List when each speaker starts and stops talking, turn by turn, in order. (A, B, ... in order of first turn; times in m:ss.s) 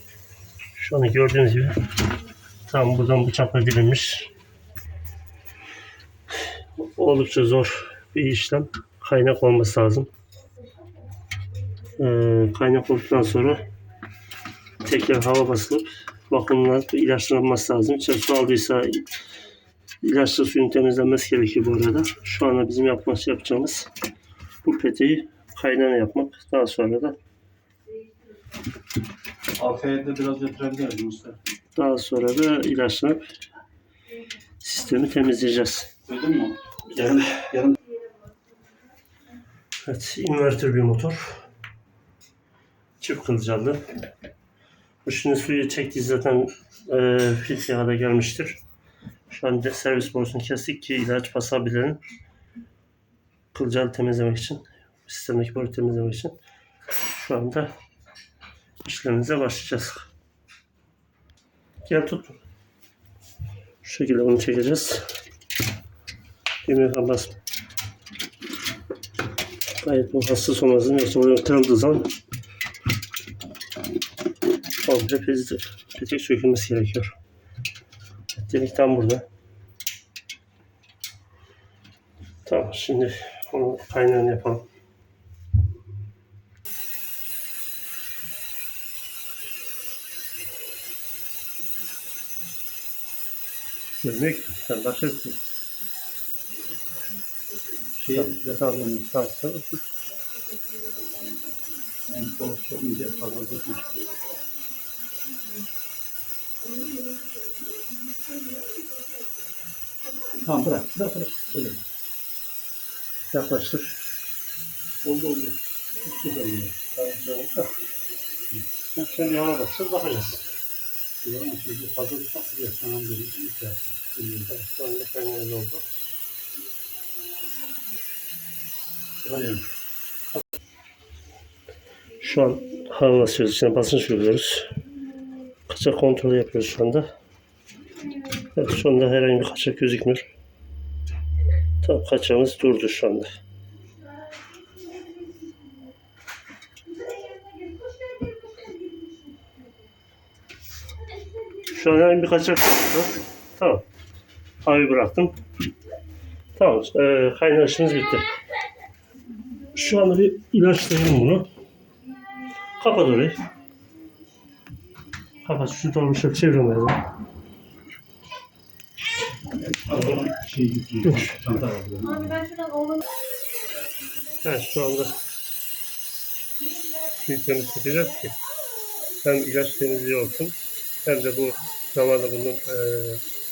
0:00.8-0:01.8 A
0:02.7-0:04.3 A
0:06.8-0:10.1 A
0:12.0-0:13.6 A
0:14.8-0:19.1 A
0:20.0-0:23.9 A
0:24.6-0:27.2 A
0:29.6-0:31.4 B
0:31.7-0:33.2 A
0:34.6-0:35.9 A
0:36.1-0:37.8 B
0:39.8-0:41.4 A
0:43.0-0:43.8 A
0:45.0-0:48.6 A
0:49.3-0:52.0 A
0:53.5-0:56.3 A
0:57.1-0:57.7 A
0:58.8-1:00.1 A
1:01.8-1:02.4 A
1:03.8-1:05.1 A
1:06.6-1:07.4 A
1:09.8-1:12.1 A
1:14.8-1:17.2 A
1:18.3-1:19.2 A
1:22.4-1:24.6 A
1:34.0-1:35.4 A
1:38.0-1:39.1 B
1:38.2-1:39.8 A
1:42.1-1:44.0 B
1:50.4-1:51.8 B
1:53.3-1:53.9 A
1:55.0-1:56.8 B
1:57.0-1:57.7 A
1:58.9-2:00.4 A
2:01.2-2:04.5 B
2:04.5-2:05.8 A
2:09.2-2:09.7 B
2:12.2-2:14.8 A
2:15.7-2:17.1 A
2:18.4-2:20.3 A
2:21.8-2:23.3 A
2:24.9-2:25.5 C
2:27.0-2:29.6 C
2:31.6-2:33.8 A
2:34.6-2:35.4 A
2:36.6-2:38.3 A
2:39.7-2:41.5 A
2:42.8-2:43.4 A
2:45.4-2:47.0 A
2:49.6-2:52.5 B
2:51.0-2:51.4 A
2:52.4-2:53.0 C
2:54.4-2:55.2 A
2:57.1-2:58.4 A
2:59.2-3:03.2 A